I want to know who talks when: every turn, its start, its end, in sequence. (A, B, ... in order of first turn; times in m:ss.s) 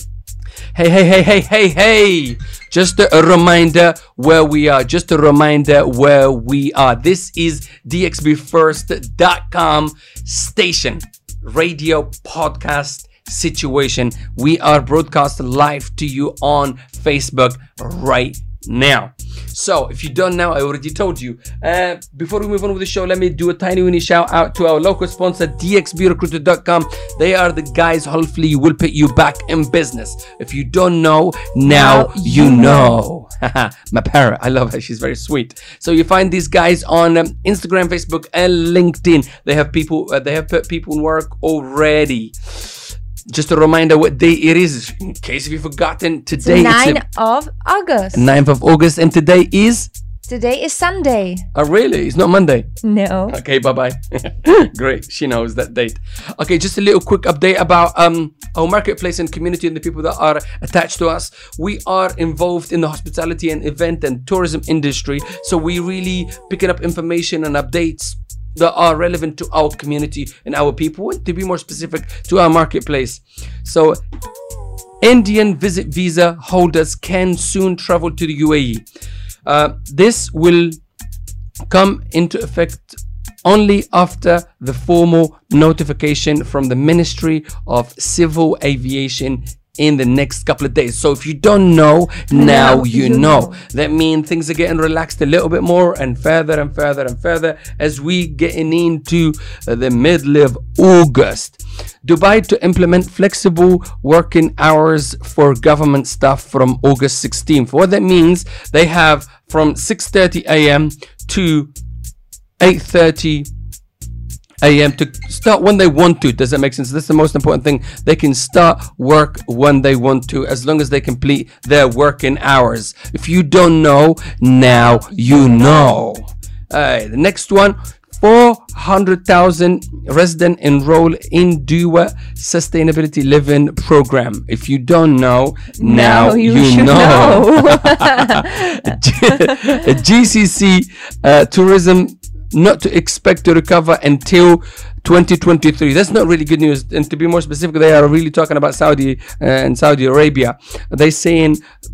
0:00.7-0:42.7 A
0:31.6-0:33.0 B
0:43.3-0:47.0 A
0:46.4-0:48.3 B
0:48.1-0:49.9 A
0:50.3-0:51.4 B
0:51.5-0:52.6 A
0:52.8-0:53.4 B
0:53.3-1:14.0 A
1:15.0-1:18.8 A
1:19.4-1:20.8 A
1:21.7-1:51.7 A
1:32.3-1:33.6 B
1:52.6-1:53.5 A
1:54.6-2:31.6 A
2:04.6-2:06.0 B
2:15.8-2:19.7 B